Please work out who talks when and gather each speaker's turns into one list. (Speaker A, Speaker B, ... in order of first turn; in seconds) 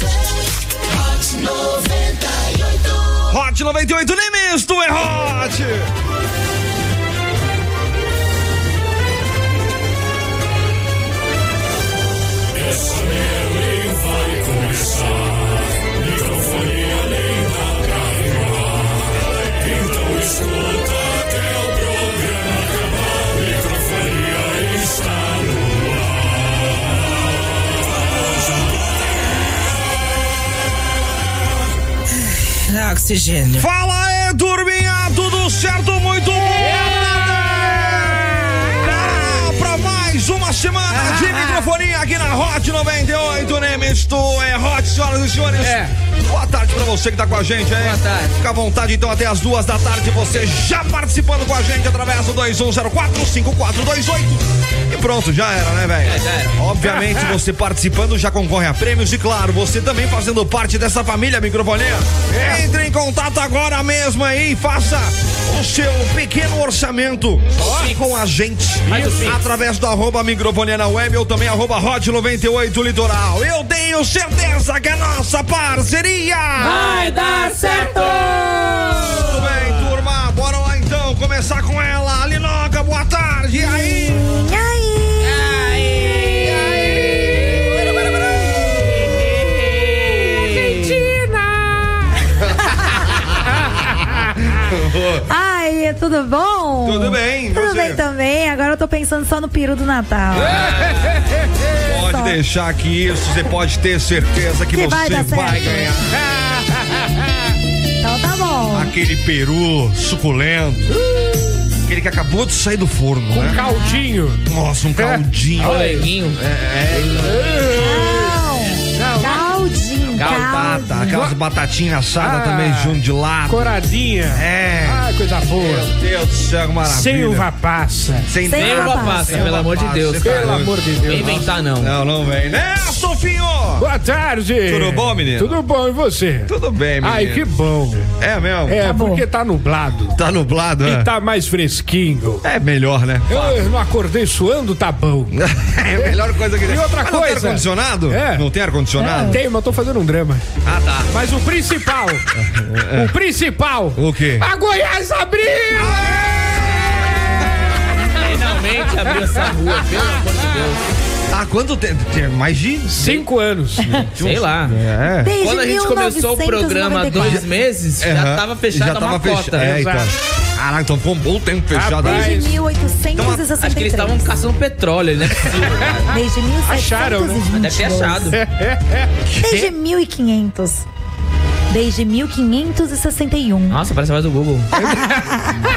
Speaker A: 3.2-5.9, 33.5-76.8, 79.2-84.2, 92.4-93.0, 94.6-95.3, 96.8-98.0, 101.8-106.2, 108.7-110.9, 111.8-113.6, 114.5-117.8, 120.0-123.7, 124.3-125.0, 125.6-127.5, 128.3-133.9, 134.6-135.6, 136.5-137.4, 138.2-138.8, 140.1-141.1, 142.4-143.5, 145.3-149.4, 150.6-151.1, 152.3-153.1, 153.9-154.5, 155.7-156.9, 161.3-163.1, 163.8-165.3, 167.1-167.4, 168.0-172.3, 173.1-173.5, 179.3-179.6
Speaker B: 12.5-26.3
Speaker C: 32.5-33.6, 41.0-41.6, 45.6-45.9, 47.8-48.3, 56.0-56.6, 67.5-68.0, 68.9-69.4, 76.6-79.6, 85.2-91.1, 100.5-101.2, 115.6-116.4, 120.2-120.8, 128.5-131.9, 158.2-160.8, 163.0-163.2, 164.2-164.8, 165.4-169.8, 173.6-176.1, 177.5-178.4, 183.7-184.7
Speaker D: 36.6-38.8, 56.9-57.3, 62.3-62.6, 68.9-69.2, 90.1-92.2, 106.1-107.1, 111.0-111.5, 113.3-114.4, 115.0-116.1, 117.2-118.3, 119.0-119.5, 121.1-121.3, 122.2-125.9, 126.8-128.3, 130.2-131.5, 133.8-136.5, 137.0-138.1, 138.7-140.1, 140.8-142.4, 143.3-145.3, 146.7-148.4, 149.2-150.4, 151.1-152.2, 152.9-156.1, 162.9-163.9, 169.6-170.1, 171.7-172.5, 176.7-177.4, 178.3-179.1
Speaker E: 76.6-79.2, 83.6-85.4, 95.3-100.7, 101.9-102.4, 104.7-105.9, 108.0-108.9, 113.5-114.0, 117.7-121.2, 128.4-129.3, 138.8-139.2, 149.0-149.4, 165.2-167.4, 172.0-174.2, 176.1-178.3, 179.4-180.8, 181.7-183.8